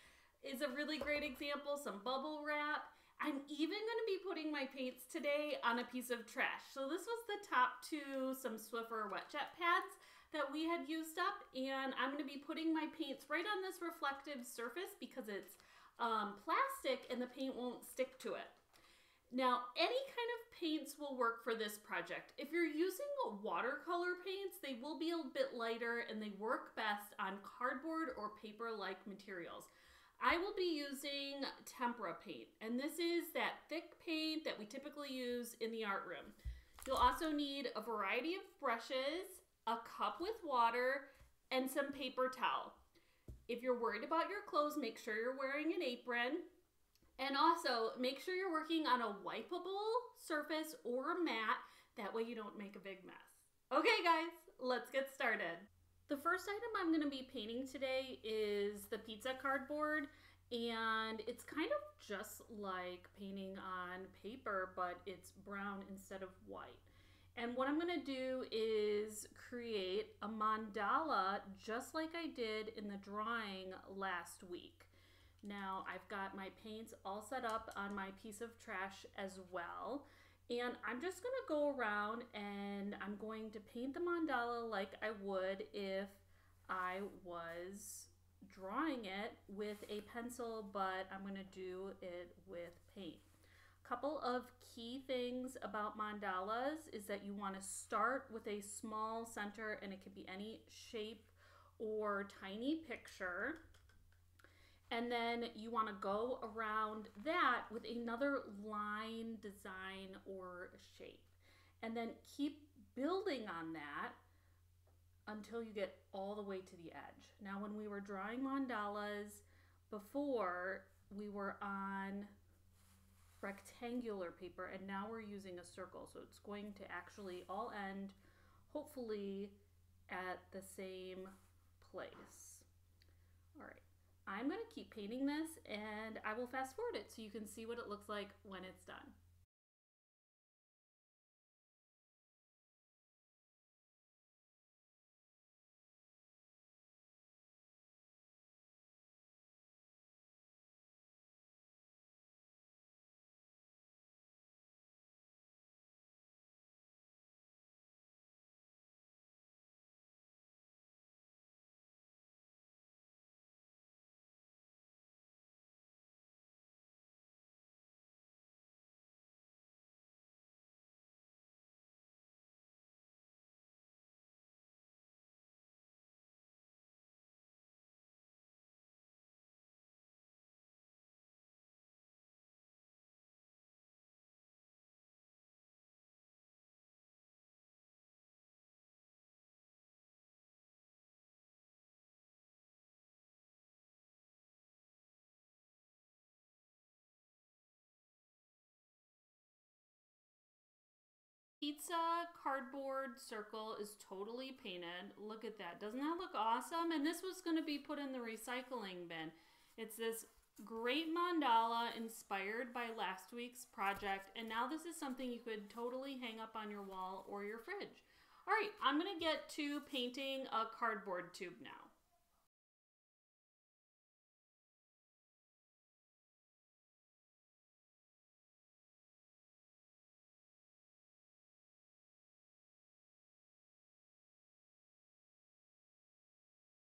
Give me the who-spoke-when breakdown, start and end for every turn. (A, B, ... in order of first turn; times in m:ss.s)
0:00.4-0:18.6 A
0:19.3-0:29.7 A
0:30.2-0:42.8 A
0:43.5-0:46.5 A
0:47.2-1:14.9 A
1:15.4-1:33.3 A
1:33.8-1:43.6 A
1:44.9-1:54.2 A
1:55.3-2:02.3 A
2:03.4-2:08.2 A
2:08.7-2:09.6 A
2:10.1-2:12.7 A
2:13.6-2:19.2 A
3:21.6-3:41.9 A